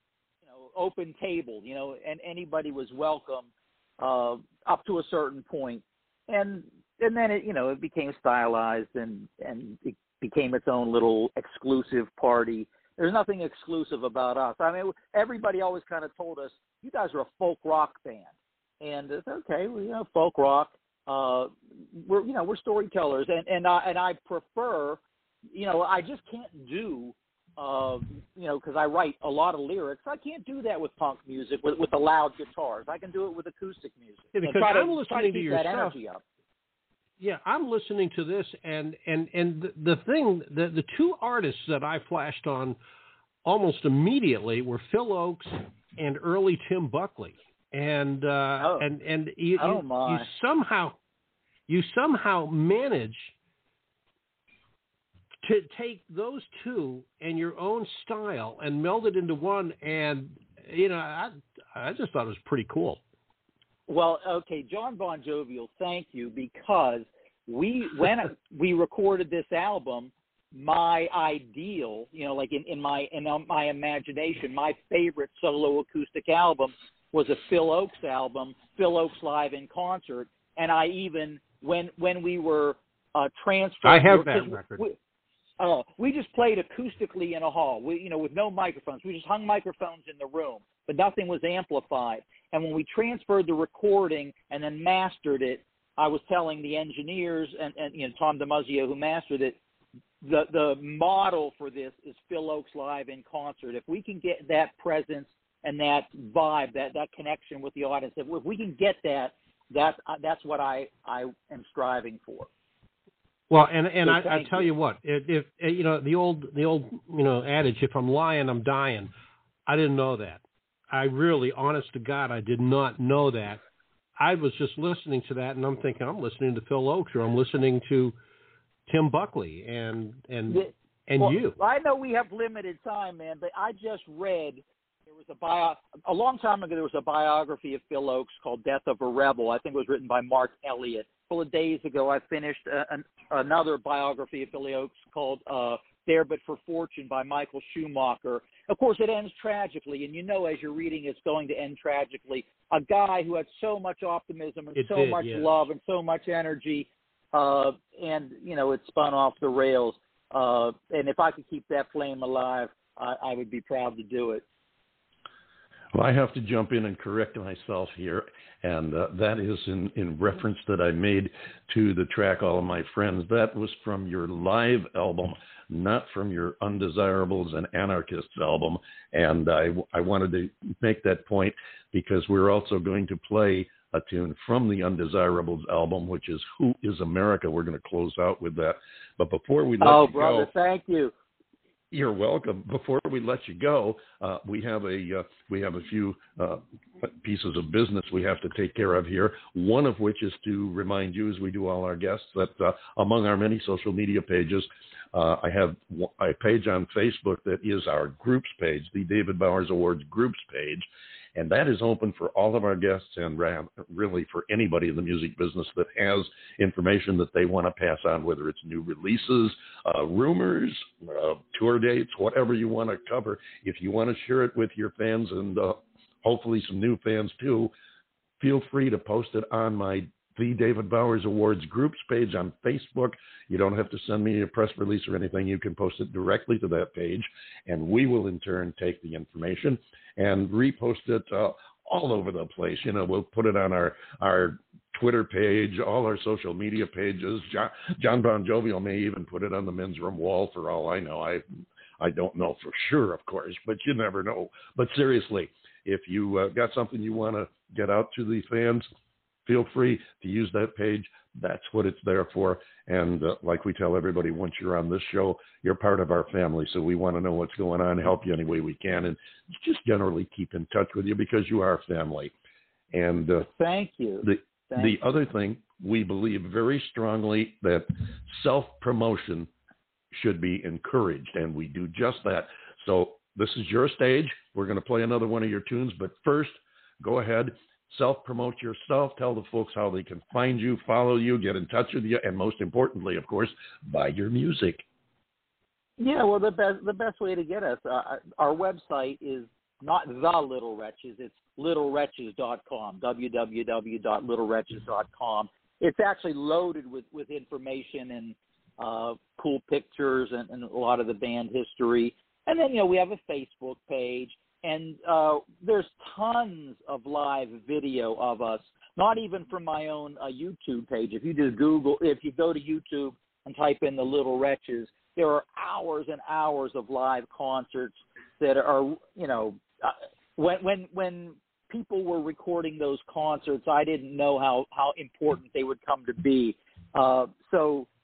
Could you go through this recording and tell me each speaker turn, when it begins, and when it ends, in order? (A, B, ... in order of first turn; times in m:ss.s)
0:00.4-0:36.2 A
0:34.3-0:36.0 B
0:37.2-0:42.8 B
0:43.4-0:51.0 B
0:48.6-0:48.8 A
0:49.6-0:50.3 A
0:51.7-0:53.3 B
0:55.4-1:03.0 B
1:03.9-1:25.0 A
1:23.8-1:24.8 B
1:25.6-1:39.6 A
1:40.2-1:52.5 A
1:53.5-1:59.1 B
1:54.0-1:54.7 A
1:59.6-2:03.6 B
2:04.2-2:08.1 B
2:08.9-2:11.6 B
2:10.5-2:44.4 A
2:34.7-2:35.6 B
2:45.9-3:10.5 C
3:09.8-3:11.1 A
3:11.9-3:47.7 C
3:48.4-4:11.4 C
4:12.0-4:18.8 C
4:19.4-4:32.3 C
4:32.9-4:33.5 C
4:33.6-4:35.0 A
4:34.2-4:39.5 C
4:40.1-4:54.8 C
4:56.0-5:37.9 A